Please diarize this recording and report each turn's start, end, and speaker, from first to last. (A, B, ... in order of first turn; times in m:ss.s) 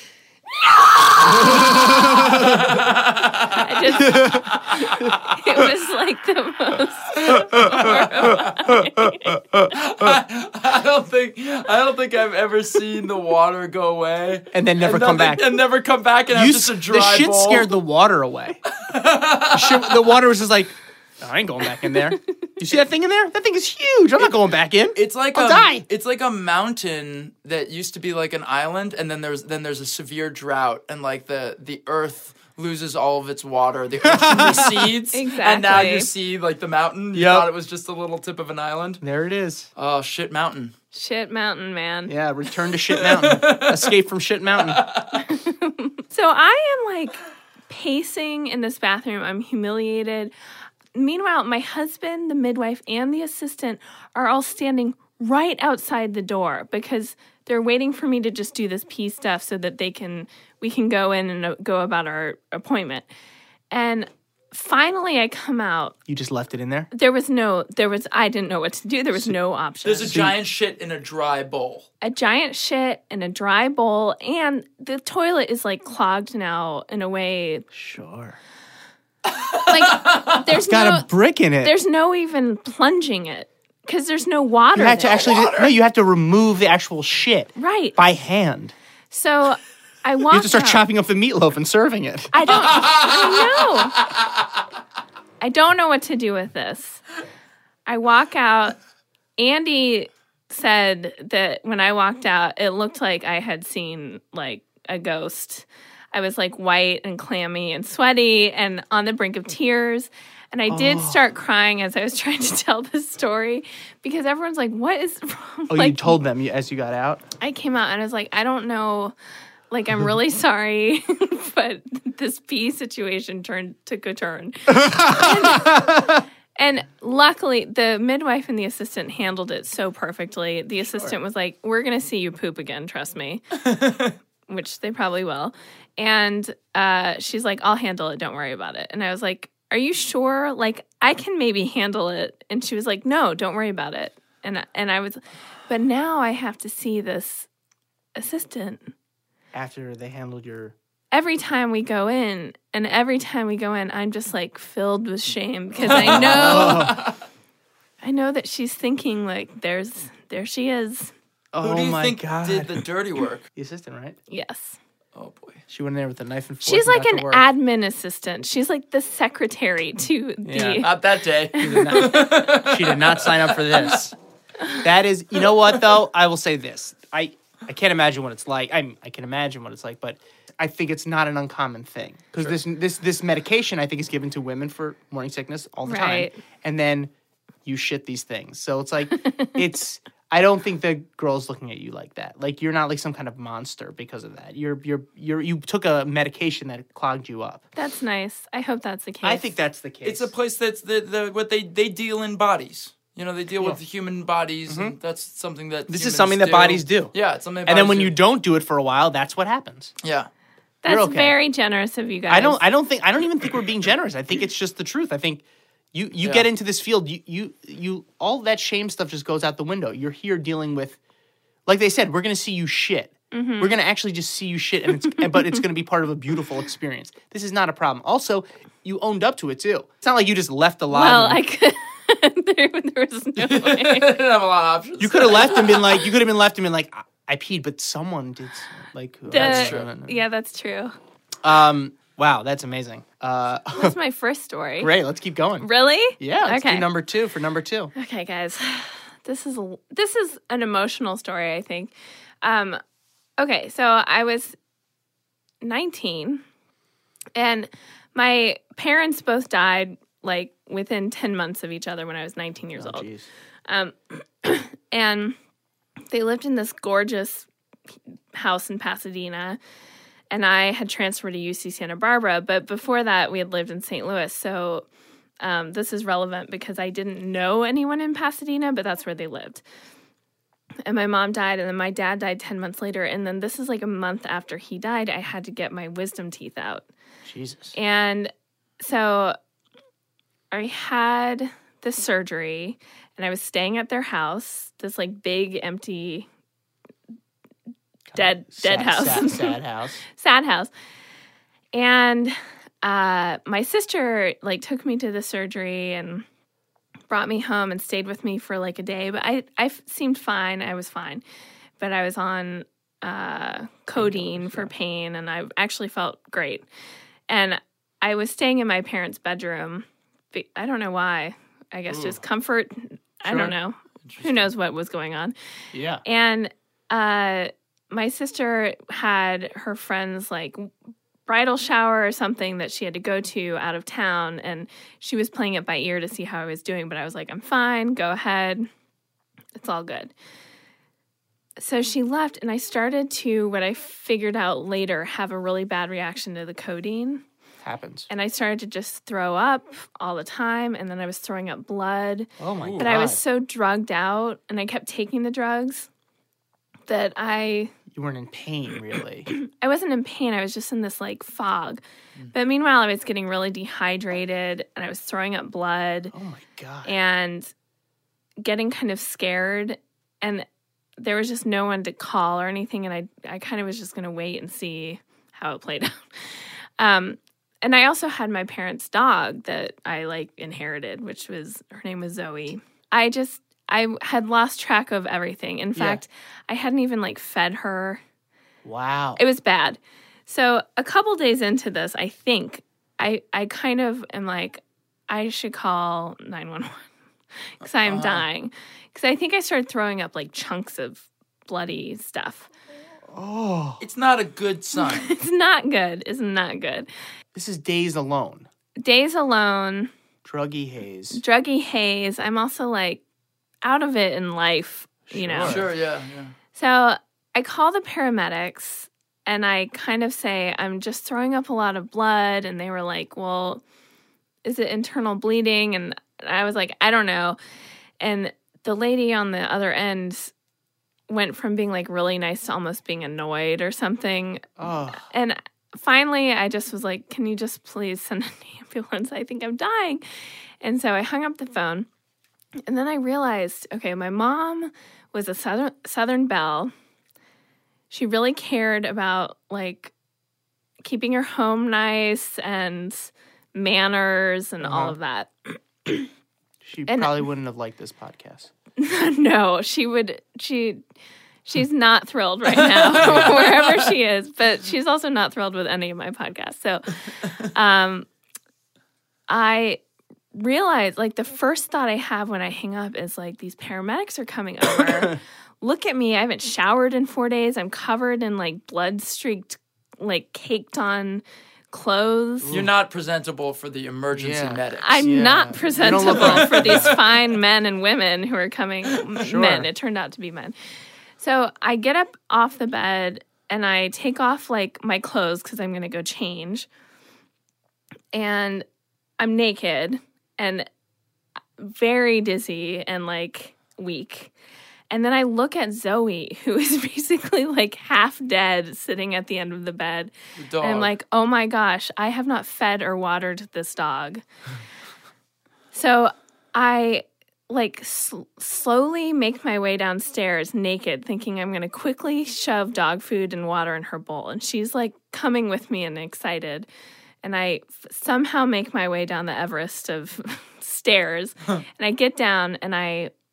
0:00.6-0:01.8 A
0:01.4-0:05.3 B
0:01.4-0:02.6 C
0:03.5-0:09.4 A
0:04.0-0:04.6 C
0:07.2-0:08.6 B
0:09.0-0:09.7 C
0:09.7-0:17.7 B
0:14.5-0:15.6 C
0:16.3-0:18.6 C
0:18.7-0:20.1 B
0:19.5-0:25.8 C
0:24.9-0:39.0 B
0:34.0-0:34.9 C
0:35.1-0:36.1 A
0:37.1-0:37.5 C
0:39.0-0:39.7 C
0:39.8-0:40.7 B
0:40.9-0:42.1 A
0:42.1-0:44.8 C
0:42.9-0:43.9 B
0:44.6-0:45.2 B
0:45.2-0:50.3 A
0:50.9-1:03.0 A
1:03.7-1:06.0 A
1:06.1-1:06.9 C
1:06.9-1:10.2 A
1:09.8-1:11.9 B
1:10.0-1:10.4 C
1:12.0-1:17.6 A
1:17.7-1:18.4 C
1:19.2-1:20.4 B
1:19.7-1:21.1 A
1:20.6-1:21.7 C
1:21.6-1:25.2 A
1:24.7-1:28.7 C
1:25.0-1:25.7 B
1:27.6-1:28.0 A
1:29.1-1:30.8 A
1:30.3-1:32.6 C
1:32.3-1:34.0 A
1:32.6-1:33.8 B
1:35.4-1:37.0 A
1:37.9-1:38.8 A
1:39.4-1:56.2 A
1:50.7-1:51.2 C
1:55.7-1:57.2 C
1:57.4-1:59.1 A
1:59.7-2:13.6 A
2:04.7-2:06.2 C
2:14.5-2:27.5 A
2:28.2-2:28.9 A
2:29.5-2:30.7 C
2:31.1-2:36.9 A
2:35.8-2:37.0 C
2:35.8-2:37.2 B
2:38.0-2:41.1 A
2:41.5-2:42.8 C
2:41.6-2:43.4 B
2:43.5-2:44.2 C
2:44.3-2:44.8 A
2:45.1-2:45.6 B
2:45.7-2:47.4 C
2:46.6-2:51.0 A
2:50.4-2:50.8 C
2:50.8-2:54.0 B
2:51.6-2:52.2 A
2:51.6-2:54.1 C
2:54.8-3:07.1 C
3:05.8-3:06.4 A
3:07.6-3:17.6 C
3:09.1-3:09.5 A
3:17.8-3:19.4 A
3:19.2-3:20.3 C
3:20.0-3:28.2 B
3:24.7-3:24.9 C
3:25.9-3:27.1 C
3:27.6-3:29.9 C
3:30.0-3:30.3 B
3:30.8-3:32.6 A
3:30.8-3:31.4 C
3:32.3-3:41.0 C
3:36.2-3:36.5 B
3:41.7-3:51.4 C
3:43.3-3:43.8 A
3:45.1-3:45.6 A
3:50.9-3:54.2 A
3:53.4-3:56.0 B
3:55.0-4:00.2 C
3:59.3-4:00.9 A
3:59.3-3:59.9 B
4:01.4-4:04.0 C
4:03.7-4:04.9 A
4:04.8-4:07.9 C
4:05.6-4:06.9 A
4:07.9-4:12.8 A
4:13.4-4:14.6 A
4:15.6-4:16.4 A
4:17.4-4:23.1 A
4:22.7-4:23.3 C
4:23.7-4:25.4 A
4:26.1-4:27.5 A
4:28.3-4:29.6 A
4:30.3-4:34.8 A
4:35.4-4:39.6 A
4:40.8-4:46.8 A
4:47.2-4:47.7 C
4:47.7-4:49.4 A
4:50.5-4:56.3 A
4:58.1-5:00.0 C
4:58.1-5:00.7 A
5:01.7-5:06.2 A
5:07.1-5:11.2 A
5:11.8-5:16.6 A
5:14.0-5:14.7 C
5:17.3-5:25.3 A
5:23.2-5:23.5 C
5:24.0-5:24.5 B
5:25.7-5:26.0 C
5:26.0-5:30.7 A
5:31.2-5:38.7 A
5:39.5-5:40.1 A
5:41.6-5:47.2 A
5:47.6-5:48.1 C
5:48.1-5:55.9 A
5:52.4-5:53.2 C
5:52.6-5:52.9 B
5:56.9-5:57.7 A
5:57.9-5:59.3 C
5:59.3-6:01.8 A
6:02.3-6:06.1 A
6:06.1-6:06.9 C
6:06.8-6:07.5 A
6:08.4-6:10.4 A
6:11.0-6:16.0 A
6:16.8-6:28.0 A
6:25.7-6:26.0 C
6:28.6-6:29.2 C
6:29.2-6:36.8 A
6:37.6-6:42.5 A
6:37.8-6:38.2 B
6:43.1-6:43.8 C
6:43.8-6:45.1 B
6:44.8-6:46.9 A
6:47.3-6:48.5 C
6:48.8-6:49.9 A
6:50.2-6:51.2 C
6:51.1-6:53.0 A
6:53.6-6:55.7 A
6:55.1-6:55.7 C
6:55.4-6:56.3 B
6:56.5-7:03.6 A
7:04.4-7:07.4 A
7:08.0-7:10.3 A
7:11.1-7:20.0 A
7:14.6-7:15.1 C
7:20.6-7:21.9 A
7:22.6-7:26.7 A
7:27.9-7:29.9 A
7:30.8-7:36.1 A
7:34.6-7:35.0 C
7:36.6-7:38.5 C
7:36.9-7:37.2 A
7:38.8-7:40.8 A
7:41.4-7:48.1 A
7:42.5-7:43.8 B
7:43.0-7:43.4 C
7:49.3-7:49.8 A
7:50.3-8:02.6 A
8:02.4-8:02.7 C
8:02.5-8:05.1 B
8:04.1-8:06.9 C
8:04.8-8:10.5 A
8:05.8-8:07.0 B
8:09.2-8:09.7 C
8:11.2-8:16.7 A
8:18.1-8:18.6 A
8:19.2-8:20.7 A
8:21.6-8:24.3 A
8:24.9-8:34.2 A
8:30.4-8:30.9 B
8:35.7-8:46.7 A
8:47.2-8:53.1 A